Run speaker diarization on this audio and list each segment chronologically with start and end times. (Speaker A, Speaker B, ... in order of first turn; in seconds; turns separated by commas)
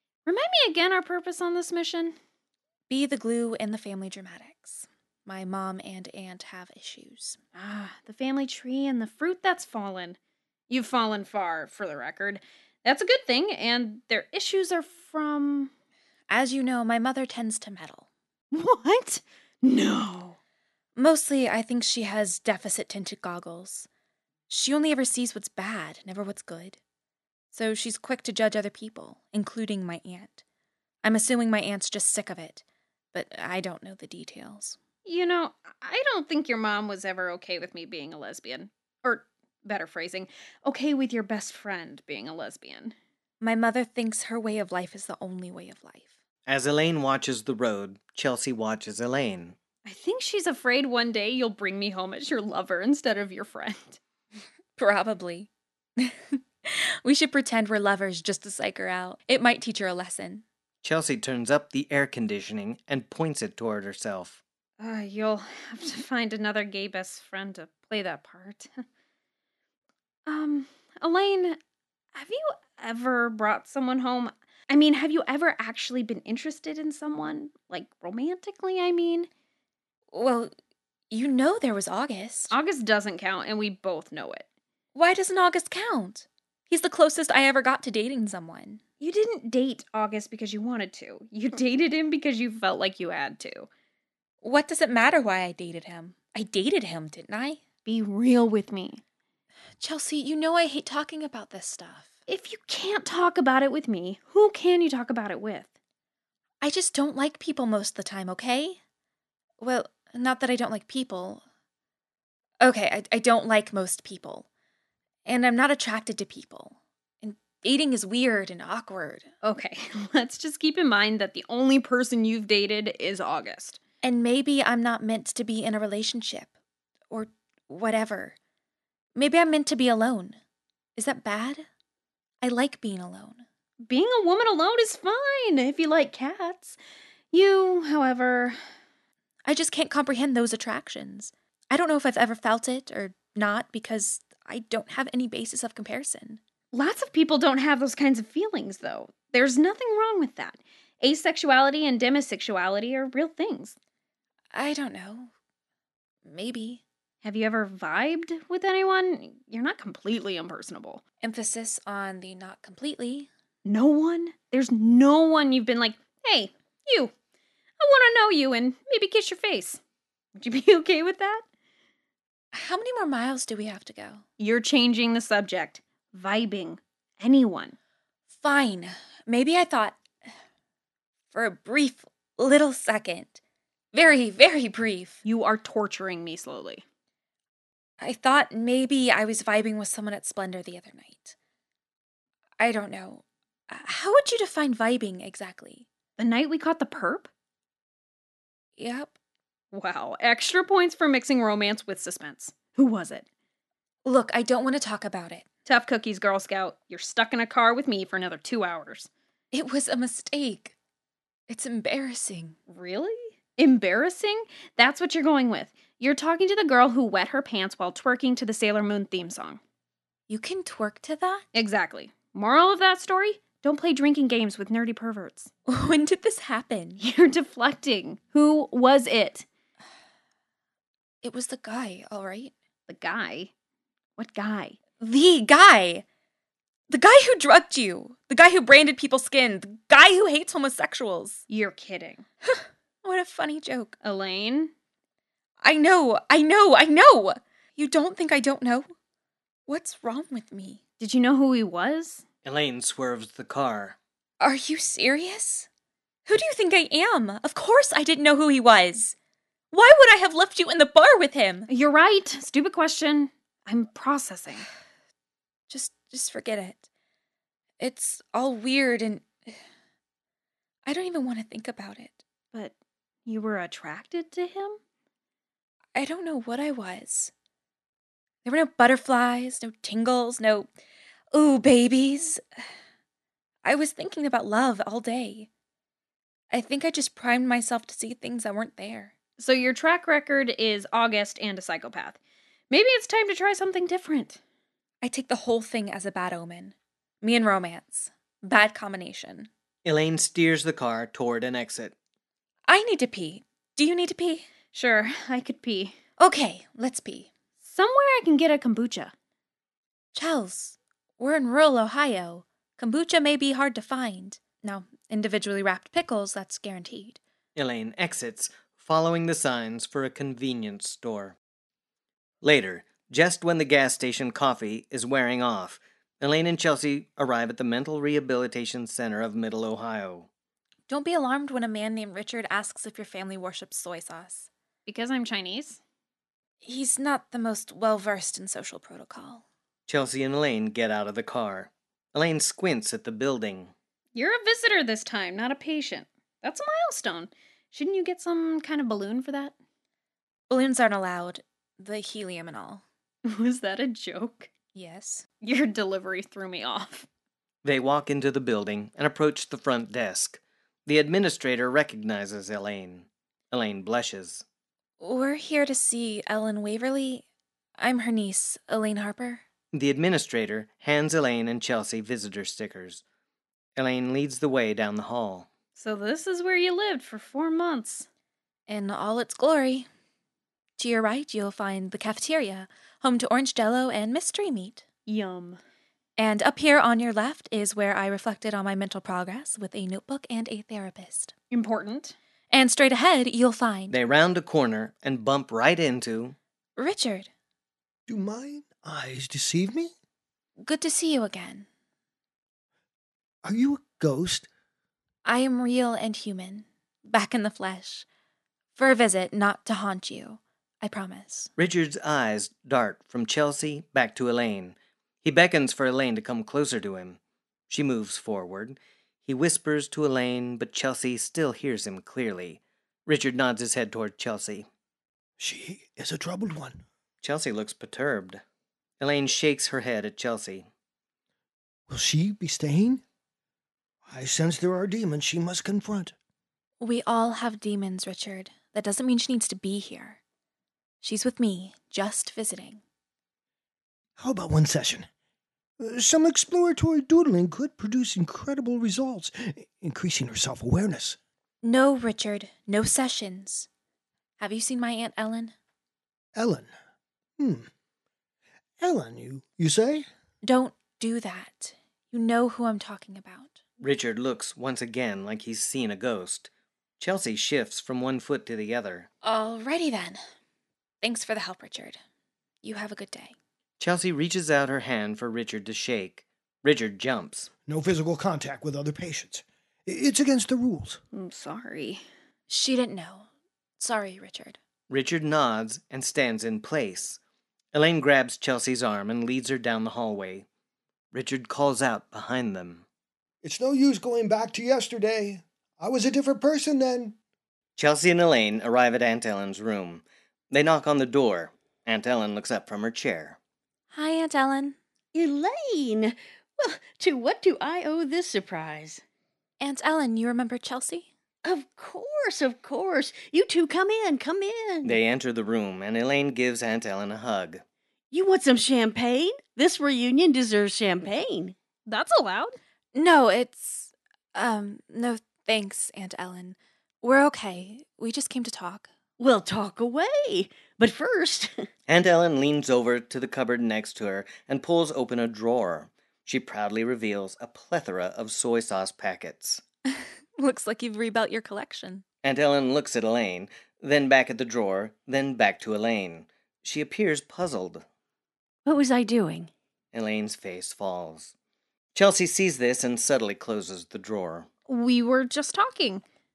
Speaker A: 0.3-2.1, Speaker B: 2.9-7.4, Speaker A: 7.5-10.2, Speaker A: 10.7-15.7, Speaker B: 16.3-18.1, Speaker A: 18.5-20.4, Speaker B: 21.0-23.9, Speaker B: 24.5-26.8, Speaker B: 27.5-30.4, Speaker B: 31.0-34.8, Speaker A: 35.0-43.0, Speaker B: 43.4-46.1, Speaker C: 46.5-49.6, Speaker A: 49.9-54.0, Speaker B: 54.8-60.4, Speaker C: 60.8-64.4, Speaker A: 64.8-68.8, Speaker A: 70.3-71.6, Speaker A: 72.1-79.3, Speaker B: 80.1-80.5, Speaker B: 81.1-82.5, Speaker A: 82.5-84.5, Speaker B: 84.9-88.8, Speaker A: 89.0-93.7, Speaker B: 94.4-97.6, Speaker A: 97.8-99.0, Speaker B: 99.8-102.1, Speaker A: 102.3-105.7, Speaker B: 106.6-108.8, Speaker B: 109.6-111.4, Speaker B: 112.6-114.5, Speaker B: 115.2-119.3, Speaker A: 119.4-123.8, Speaker B: 124.0-126.5, Speaker B: 127.1-128.4, Speaker B: 129.2-130.4, Speaker B: 131.0-131.7, Speaker B: 132.4-133.4, Speaker A: 133.8-136.8, Speaker A: 137.3-138.6, Speaker B: 139.4-146.4, Speaker A: 146.7-153.8, Speaker B: 154.5-155.3, Speaker B: 156.3-156.8, Speaker A: 157.2-161.0, Speaker B: 161.2-163.3, Speaker A: 163.7-167.1, Speaker A: 167.8-169.8, Speaker A: 170.4-171.4, Speaker B: 172.5-174.2, Speaker A: 174.4-177.8, Speaker B: 178.3-180.0, Speaker B: 181.3-183.4, Speaker B: 183.9-185.2, Speaker A: 185.2-186.8, Speaker B: 188.0-191.3, Speaker B: 192.6-195.9, Speaker A: 196.2-197.3, Speaker B: 198.8-199.2, Speaker A: 199.7-203.3, Speaker B: 204.1-205.5, Speaker A: 205.7-209.1, Speaker B: 209.5-210.8, Speaker B: 211.5-212.6, Speaker A: 212.7-219.6, Speaker B: 220.3-221.4, Speaker A: 221.5-225.5, Speaker B: 225.7-227.0, Speaker A: 227.0-229.5, Speaker B: 231.2-232.5, Speaker A: 232.9-233.5, Speaker A: 234.2-234.8, Speaker B: 235.0-236.1, Speaker B: 236.9-241.4, Speaker A: 241.5-242.3, Speaker B: 242.5-244.0, Speaker A: 244.0-244.7, Speaker B: 245.6-248.9, Speaker B: 249.7-250.8, Speaker A: 251.0-252.2, Speaker C: 252.4-254.0, Speaker B: 254.4-255.7, Speaker B: 256.3-259.1, Speaker B: 259.7-261.7, Speaker A: 261.7-264.7, Speaker B: 265.7-266.8, Speaker B: 267.8-269.3, Speaker B: 270.9-272.2, Speaker A: 273.3-274.8, Speaker B: 275.9-277.3, Speaker B: 278.4-280.7, Speaker B: 281.3-282.4, Speaker B: 283.6-285.5, Speaker B: 286.5-289.1, Speaker A: 289.4-292.2, Speaker A: 292.7-294.4, Speaker B: 295.0-299.5, Speaker C: 299.9-301.9, Speaker B: 302.7-304.5, Speaker A: 304.7-306.0, Speaker B: 306.2-307.3, Speaker A: 307.6-309.1, Speaker B: 310.1-317.2, Speaker C: 317.6-321.4, Speaker C: 322.4-330.3, Speaker B: 330.9-334.5, Speaker A: 334.9-335.8, Speaker B: 336.6-339.4, Speaker C: 339.9-343.7, Speaker A: 344.1-349.6, Speaker B: 350.5-352.8, Speaker A: 353.2-354.5, Speaker B: 354.7-355.3, Speaker A: 355.4-357.1, Speaker C: 357.6-364.4, Speaker B: 365.0-367.2, Speaker B: 367.8-369.4, Speaker C: 369.7-373.0, Speaker C: 373.8-375.5, Speaker A: 375.8-378.1, Speaker B: 378.7-379.9, Speaker B: 380.8-384.8, Speaker A: 385.1-385.6, Speaker B: 386.2-391.3, Speaker A: 391.5-392.2, Speaker B: 392.5-393.9, Speaker C: 393.9-396.4, Speaker B: 396.8-397.3, Speaker D: 398.1-399.9, Speaker B: 400.6-401.7, Speaker D: 403.4-404.5, Speaker B: 405.2-408.1, Speaker B: 408.8-411.5, Speaker C: 411.6-424.7, Speaker D: 425.4-426.8, Speaker C: 427.2-428.4, Speaker C: 429.0-430.7, Speaker D: 431.9-433.0, Speaker D: 434.1-436.1, Speaker B: 436.8-440.2, Speaker B: 441.0-442.8, Speaker D: 444.2-445.1, Speaker D: 445.8-451.2, Speaker B: 451.6-453.7, Speaker B: 454.4-455.5, Speaker D: 456.4-456.7, Speaker D: 457.4-457.7, Speaker D: 458.8-460.1, Speaker B: 460.4-463.6, Speaker C: 463.8-469.1, Speaker B: 469.2-470.2, Speaker B: 471.0-472.0, Speaker B: 472.6-473.3, Speaker C: 473.8-477.5, Speaker D: 477.7-481.0, Speaker A: 481.1-482.0, Speaker B: 482.5-484.6, Speaker C: 484.9-487.2, Speaker C: 487.7-490.5, Speaker C: 491.1-492.9, Speaker D: 493.4-497.2, Speaker C: 497.8-503.4, Speaker B: 503.9-504.8, Speaker E: 505.1-509.0, Speaker B: 509.6-511.1, Speaker E: 511.4-515.0, Speaker C: 514.8-517.6, Speaker E: 518.1-521.5, Speaker A: 521.9-522.6, Speaker B: 522.9-528.9, Speaker E: 529.2-531.6, Speaker C: 531.9-539.6, Speaker B: 539.9-542.0, Speaker C: 542.2-547.9, Speaker E: 548.7-549.5, Speaker C: 549.9-551.3, Speaker C: 551.9-554.5, Speaker A: 554.7-556.0